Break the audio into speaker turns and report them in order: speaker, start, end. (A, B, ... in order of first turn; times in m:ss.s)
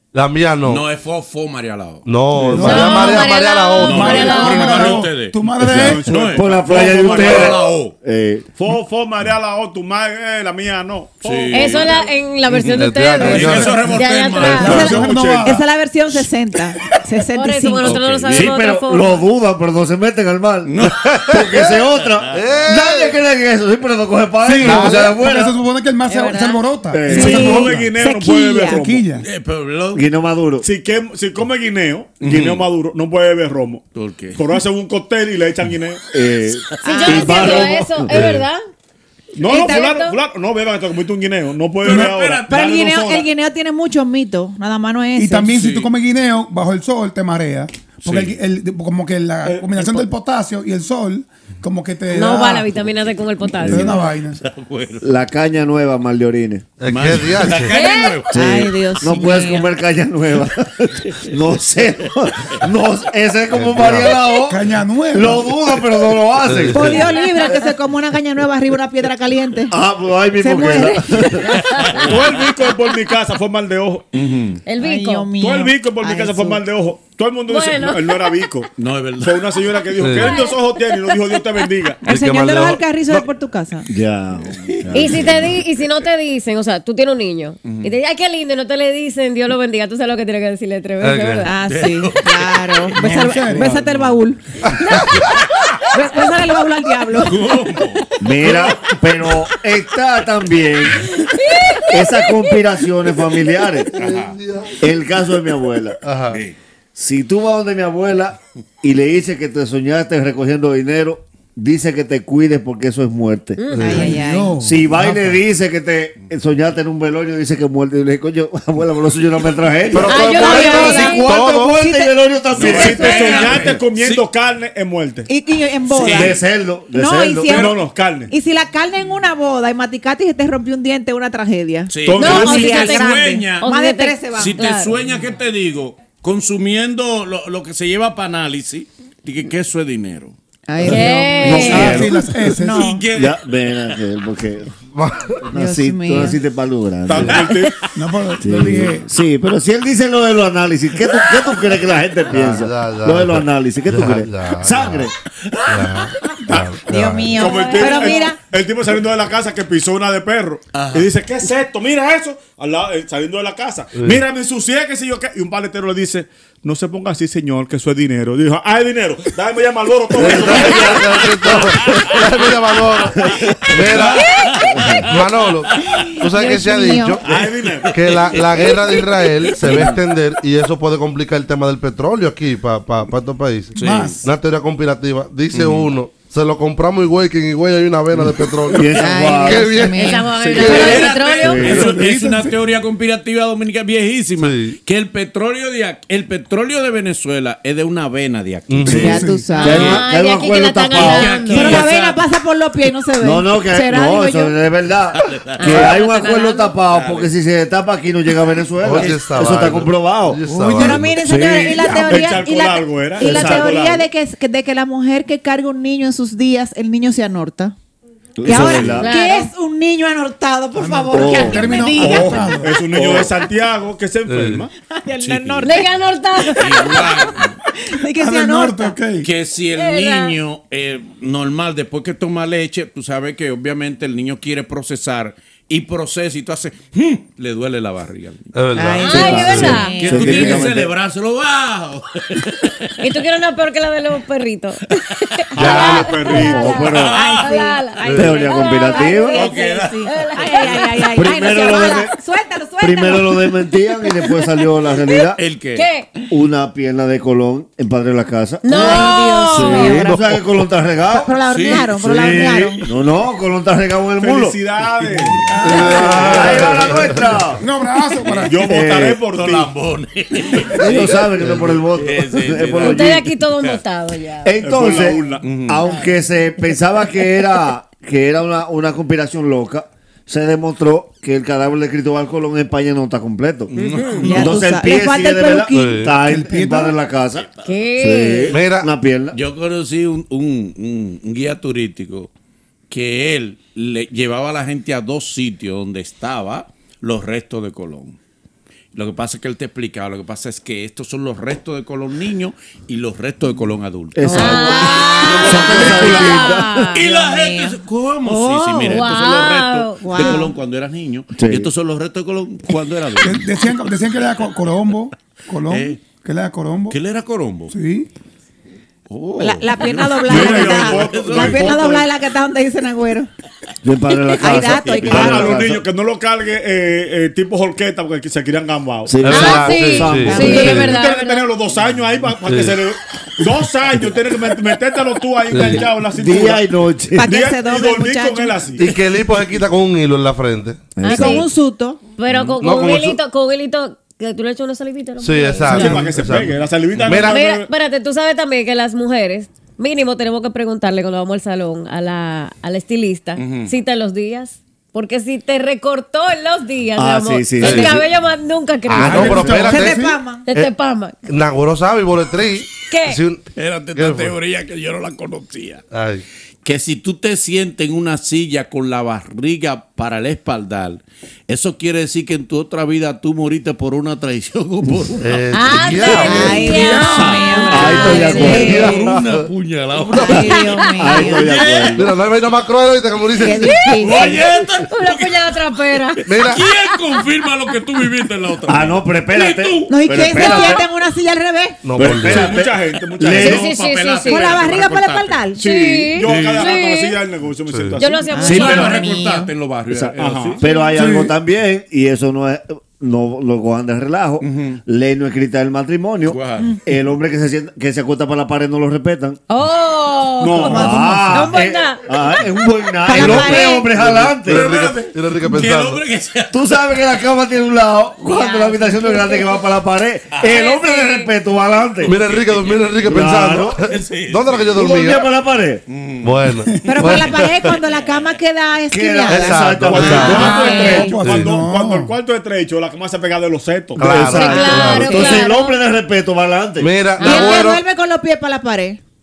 0:00.1-0:00.8 A
0:00.6-0:02.8 B
0:02.0-0:04.3 A
0:02.5-0:06.1 C
0:02.6-0:05.0 D
0:03.8-0:07.9 B
0:05.6-0:08.5 E
0:05.7-0:07.7 F
0:08.6-0:12.1 F
0:11.2-0:14.8 B
0:11.5-0:15.0 D
0:12.5-0:15.0 A
0:14.6-0:15.6 C
0:14.7-0:18.0 G
0:14.7-0:15.6 F
0:17.3-0:19.2 D
0:17.8-0:18.6 B
0:18.3-0:25.6 E
0:20.6-0:22.4 B
0:21.0-0:23.1 A
0:24.4-0:27.9 C
0:24.6-0:25.1 A
0:26.1-0:26.6 D
0:26.9-0:27.7 E
0:27.1-0:28.8 G
0:27.1-0:29.0 F
0:28.7-0:29.3 C
0:29.2-0:30.1 B
0:29.9-0:30.7 E
0:30.6-0:33.8 F
0:32.2-0:32.6 B
0:33.9-0:34.6 B
0:34.4-0:36.0 F
0:36.1-0:38.4 E
0:36.7-0:37.1 B
0:36.8-0:37.7 G
0:36.8-0:38.6 D
0:39.3-0:43.3 F
0:39.4-0:40.2 D
0:41.8-0:42.7 B
0:42.5-0:45.5 G
0:45.2-0:52.7 C
0:45.5-0:45.9 B
0:48.0-0:48.4 B
0:49.4-0:50.1 F
0:52.1-0:54.1 D
0:53.6-0:53.9 E
0:53.7-0:54.4 C
0:53.7-0:55.1 B
0:55.0-0:56.6 E
0:56.8-0:57.8 A
0:56.9-0:58.3 B
0:57.7-0:58.3 D
0:58.3-0:59.7 G
0:58.3-1:07.0 E
0:59.2-0:59.5 B
1:01.0-1:01.4 B
1:02.1-1:02.6 B
1:03.5-1:04.2 A
1:04.5-1:05.6 C
1:06.4-1:07.1 A
1:06.7-1:09.7 G
1:07.2-1:07.6 D
1:09.7-1:11.5 E
1:10.4-1:11.4 G
1:11.5-1:12.4 B
1:12.0-1:14.0 F
1:14.1-1:14.6 B
1:14.6-1:15.3 D
1:14.8-1:16.6 G
1:15.4-1:22.0 F
1:17.5-1:18.4 D
1:18.8-1:19.7 B
1:20.0-1:20.4 A
1:20.1-1:21.4 D
1:22.0-1:23.9 G
1:22.1-1:23.2 A
1:23.9-1:25.6 E
1:24.6-1:25.3 B
1:24.9-1:31.4 D
1:27.6-1:27.9 B
1:31.0-1:31.5 A
1:31.4-1:34.4 G
1:31.6-1:34.2 B
1:33.0-1:33.8 C
1:34.7-1:35.1 A
1:35.9-1:37.6 G
1:37.2-1:39.5 B
1:38.2-1:41.1 E
1:41.9-1:44.2 E
1:43.9-1:44.4 B
1:44.2-1:44.8 A
1:44.8-1:46.0 E
1:46.0-1:46.4 A
1:46.3-1:46.6 B
1:47.0-1:53.6 E
1:53.6-1:54.2 D
1:53.7-1:54.0 A
1:53.8-1:54.6 G
1:53.9-1:55.4 C
1:54.6-2:03.8 E
1:59.9-2:01.8 A
2:00.1-2:01.4 D
2:00.1-2:02.1 G
2:02.5-2:04.2 B
2:02.6-2:05.3 F
2:02.7-2:03.5 G
2:05.3-2:06.4 G
2:05.9-2:06.4 B
2:06.0-2:07.7 E
2:06.9-2:14.6 G
2:07.5-2:08.3 F
2:11.9-2:13.7 B
2:12.0-2:12.6 F
2:12.1-2:15.0 D
2:14.4-2:20.3 B
2:20.7-2:23.0 G
2:20.8-2:22.0 D
2:21.4-2:22.1 E
2:21.4-2:23.0 C
2:21.6-2:24.0 B
2:23.1-2:24.7 E
2:24.9-2:25.4 A
2:25.4-2:27.5 E
2:25.5-2:26.4 G
2:27.0-2:27.9 F
2:27.3-2:27.9 B
2:27.9-2:29.1 C
2:28.4-2:35.1 E
2:30.9-2:31.8 B
2:32.3-2:35.1 A
2:35.4-2:36.4 B
2:35.7-2:37.4 A
2:36.5-2:36.8 F
2:36.9-2:38.4 G
2:37.4-2:51.7 F
2:37.4-2:38.3 D
2:40.7-2:41.1 B
2:44.0-2:44.2 A
2:50.1-2:54.3 A
2:50.2-2:51.0 E
2:50.5-2:52.2 B
2:53.7-2:55.2 B
2:54.7-2:55.0 E
2:55.1-2:57.3 A
2:55.7-2:56.1 B
2:56.0-2:57.2 G
2:57.2-2:57.9 F
2:57.2-3:00.0 B
2:57.9-3:11.0 A
3:03.7-3:04.2 B
3:03.8-3:04.2 C
3:05.5-3:05.9 B
3:08.7-3:09.8 E
3:08.9-3:10.3 G
3:09.8-3:11.8 D
3:10.4-3:19.0 B
3:10.7-3:11.2 F
3:11.4-3:11.9 E
3:11.7-3:12.6 C
3:14.4-3:14.8 A
3:18.7-3:19.2 A
3:18.8-3:19.9 G
3:18.9-3:21.4 E
3:18.9-3:19.5 C
3:19.6-3:20.1 B
3:19.6-3:21.8 D
3:20.9-3:22.2 B
3:21.5-3:24.5 G
3:23.2-3:32.4 E
3:25.1-3:26.0 B
3:25.6-3:26.8 D
3:26.9-3:27.3 B
3:28.8-3:31.1 A
3:30.7-3:37.7 G
3:32.0-3:34.0 F
3:33.2-3:33.8 E
3:38.4-3:39.1 E
3:38.4-3:42.6 G
3:38.5-3:39.5 D
3:40.8-3:42.8 C
3:41.1-3:41.8 E
3:41.9-3:44.7 F
3:42.9-3:43.3 E
3:44.3-3:44.6 A
3:44.9-3:49.0 G
3:45.2-3:45.8 B
3:45.6-3:47.0 D
3:46.6-3:47.6 B
3:48.2-3:49.3 C
3:49.2-3:58.5 B
3:49.7-3:50.4 D
3:58.5-3:59.8 A
3:58.8-4:00.6 G
3:59.0-4:00.5 D
3:59.1-4:00.9 E
3:59.9-4:03.2 B
4:03.0-4:11.1 D
4:05.5-4:06.8 F
4:05.6-4:06.2 A
4:06.3-4:13.5 G
4:06.4-4:07.2 E
4:06.6-4:07.5 B
4:08.0-4:08.4 A
4:08.1-4:09.4 E
4:09.3-4:10.8 B
4:11.2-4:12.1 E
4:12.8-4:15.4 E
4:15.4-4:15.9 B
4:15.7-4:16.1 D
4:16.3-4:24.6 E
4:18.6-4:20.1 D
4:18.7-4:20.3 G
4:21.1-4:22.8 G
4:21.5-4:22.4 B
4:24.2-4:26.6 F
4:25.2-4:26.8 C
4:25.6-4:27.4 A
4:25.9-4:27.6 E
4:27.6-4:28.7 C
4:28.4-4:29.7 F
4:28.6-4:29.2 E
4:29.3-4:33.8 B
4:30.7-4:33.3 E
4:32.8-4:34.6 D
4:34.4-4:43.7 E
4:34.6-4:35.5 F
4:35.4-4:35.9 B
4:35.8-4:36.1 D
4:43.7-4:44.6 B
4:44.2-4:45.9 G
4:44.3-4:49.4 E
4:45.7-4:46.2 A
4:46.2-4:46.9 C
4:47.4-4:47.8 B
4:47.6-4:48.6 D
4:48.5-4:48.9 A
4:49.3-4:52.3 B
4:52.9-4:58.2 B
4:58.9-5:06.0 B
5:04.1-5:06.9 E
5:04.2-5:07.0 D
5:05.2-5:06.4 F
5:06.9-5:09.1 G
5:06.9-5:13.8 B
5:08.9-5:10.4 D
5:10.0-5:10.5 G
5:11.4-5:11.7 E
5:13.2-5:17.0 C
5:15.7-5:16.0 B
5:16.9-5:17.7 B
5:17.7-5:18.1 C
5:19.1-5:21.9 B
5:19.4-5:23.3 G
5:20.2-5:22.1 F
5:23.8-5:25.8 E
5:24.4-5:25.6 G
5:24.7-5:25.4 B
5:25.0-5:29.4 F
5:29.0-5:30.9 E
5:29.2-5:30.9 A
5:29.3-5:31.5 D
5:30.2-5:30.8 G
5:30.6-5:36.7 F
5:32.4-5:32.8 A
5:35.5-5:35.8 A
5:35.6-5:37.3 E
5:37.2-5:38.6 G
5:37.2-5:38.9 F
5:38.8-5:40.9 A
5:41.0-5:41.4 E
5:41.0-5:41.5 D
5:41.0-5:42.0 G
5:42.2-5:46.1 D
5:42.3-5:42.6 B
5:42.6-5:43.2 A
5:45.2-5:46.5 A
5:45.7-5:47.7 F
5:47.0-5:47.4 A
5:47.1-5:59.7 D
5:53.4-5:53.7 B
5:57.0-5:58.1 E
5:57.6-5:58.0 A
5:58.9-6:00.0 A
5:59.0-5:59.5 E
5:59.0-6:00.2 C
5:59.4-6:00.4 G
6:00.5-6:01.2 D
6:01.3-6:03.4 A
6:02.9-6:03.2 D
6:03.6-6:05.8 B
6:03.9-6:04.3 A
6:05.9-6:06.2 A
6:06.6-6:20.6 B
6:15.2-6:16.8 A
6:15.5-6:18.9 D
6:16.2-6:19.1 G
6:17.7-6:19.0 E
6:19.0-6:19.5 A
6:20.1-6:21.5 G
6:20.2-6:21.2 D
6:21.0-6:22.1 E
6:21.2-6:22.0 B
6:21.9-6:23.8 A
6:23.4-6:24.4 G
6:23.6-6:26.2 D
6:24.0-6:30.7 B
6:26.2-6:26.6 A
6:28.7-6:30.8 E
6:29.9-6:31.8 G
6:31.8-6:32.6 A
6:32.0-6:33.7 E
6:32.0-6:34.2 F
6:32.2-6:35.4 B
6:33.4-6:34.6 D
6:34.3-6:35.6 G
6:35.6-6:38.5 F
6:35.6-6:37.2 D
6:36.1-6:36.8 B
6:37.7-6:38.0 A
6:38.0-6:39.1 D
6:38.3-6:39.5 G
6:38.4-6:40.6 B
6:39.9-6:49.4 E
6:40.2-6:40.6 F
6:40.9-6:41.3 C
6:44.4-6:44.8 B
6:46.3-6:46.7 B
6:49.5-6:52.2 D
6:50.4-6:51.0 F
6:50.6-6:51.5 G
6:50.7-6:54.7 E
6:53.0-6:53.9 G
6:53.1-6:56.0 A
6:54.0-6:57.0 B
6:54.6-6:55.1 F
6:56.5-7:02.2 E
6:58.3-6:59.6 D
7:00.3-7:00.6 B
7:00.5-7:01.3 D
7:02.0-7:05.2 A
7:02.1-7:02.9 B
7:03.0-7:03.8 E
7:03.8-7:04.8 B
7:04.7-7:05.8 E
7:05.9-7:06.6 B
7:06.2-7:07.7 A
7:06.8-7:11.2 G
7:08.0-7:08.2 B
7:08.9-7:10.6 E
7:09.3-7:10.6 A
7:09.8-7:14.5 F
7:10.3-7:11.1 D
7:11.0-7:12.1 C
7:11.2-7:11.5 A
7:14.0-7:15.3 A
7:14.0-7:16.9 E
7:14.2-7:15.8 D
7:14.4-7:15.5 G
7:16.8-7:17.8 A
7:17.2-7:17.7 D
7:17.2-7:19.0 G